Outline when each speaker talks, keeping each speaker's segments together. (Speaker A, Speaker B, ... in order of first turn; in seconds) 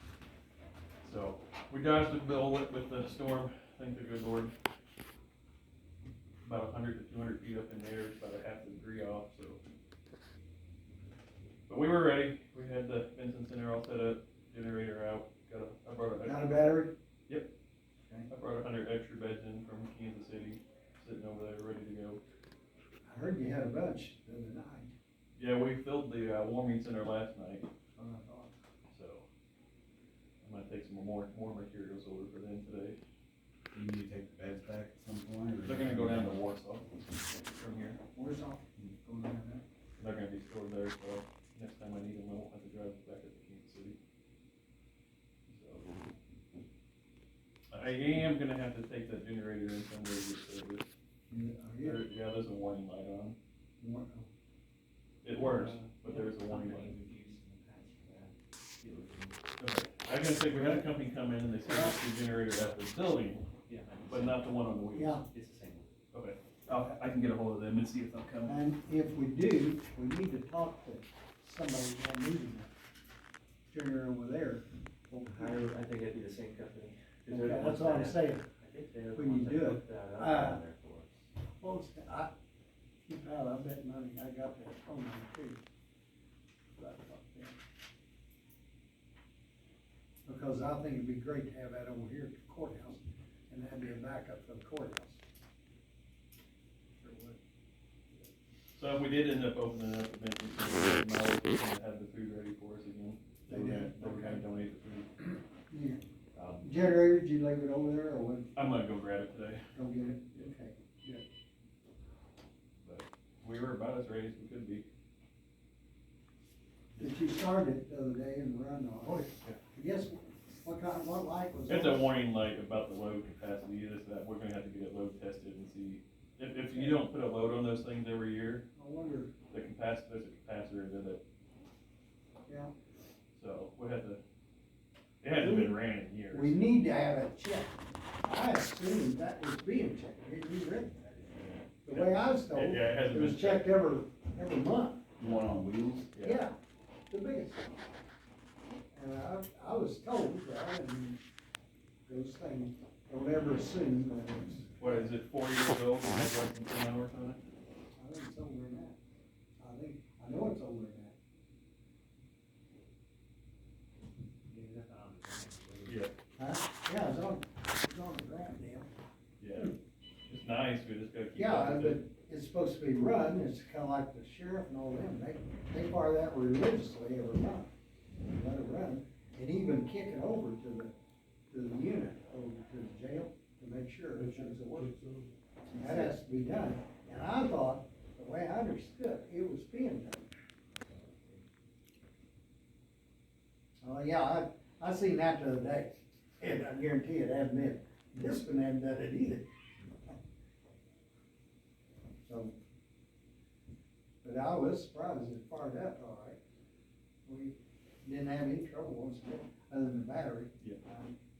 Speaker A: 1.0-4.5, 6.4-9.6, 11.7-16.7, 18.3-22.2, 25.4-27.7, 28.9-29.2, 30.4-33.0, 35.6-36.9, 37.5-38.0, 40.0-44.0, 45.5-45.9, 47.7-50.9, 51.8-53.4, 55.2-56.9, 59.6-63.5, 64.1-65.2, 66.1-68.6, 98.8-105.1, 106.4-106.7, 108.5-109.6, 112.8-114.8, 121.7-128.7, 129.5-131.2, 133.4-134.2, 135.2-136.7, 141.3-143.7, 146.1-146.4, 154.8-157.4, 165.9-166.1, 169.4-169.8, 170.3-172.0
Speaker B: 16.2-16.9, 23.1-24.9, 28.0-28.5, 38.1-39.6, 51.3-52.1, 53.8-54.3, 61.6-62.0, 65.0-65.2, 68.5-72.7, 73.7-75.6, 77.3-78.5, 79.1-80.6, 81.6-82.3, 83.1-85.6, 86.8-87.6, 90.3-95.2, 97.0-97.4, 103.5-104.5, 105.2-106.0, 106.6-108.5, 109.8-111.2, 117.0-122.1, 126.7-127.0, 128.8-129.3, 132.5-132.7, 135.3-135.8, 136.3-141.3, 141.8-145.1, 146.2-146.6, 147.1-147.8, 148.9-151.2, 152.1-155.0, 158.0-159.0, 159.6-161.2, 166.4-168.9, 171.3-180.9, 181.5-184.9, 185.7-190.3, 193.8-199.5, 202.2-202.5, 204.2-206.4, 207.2-211.2
Speaker C: 33.7-36.4, 145.2-146.1
Speaker D: 55.4-59.4, 63.7-64.4, 65.3-65.9, 75.1-81.2, 164.5-166.0, 190.8-191.4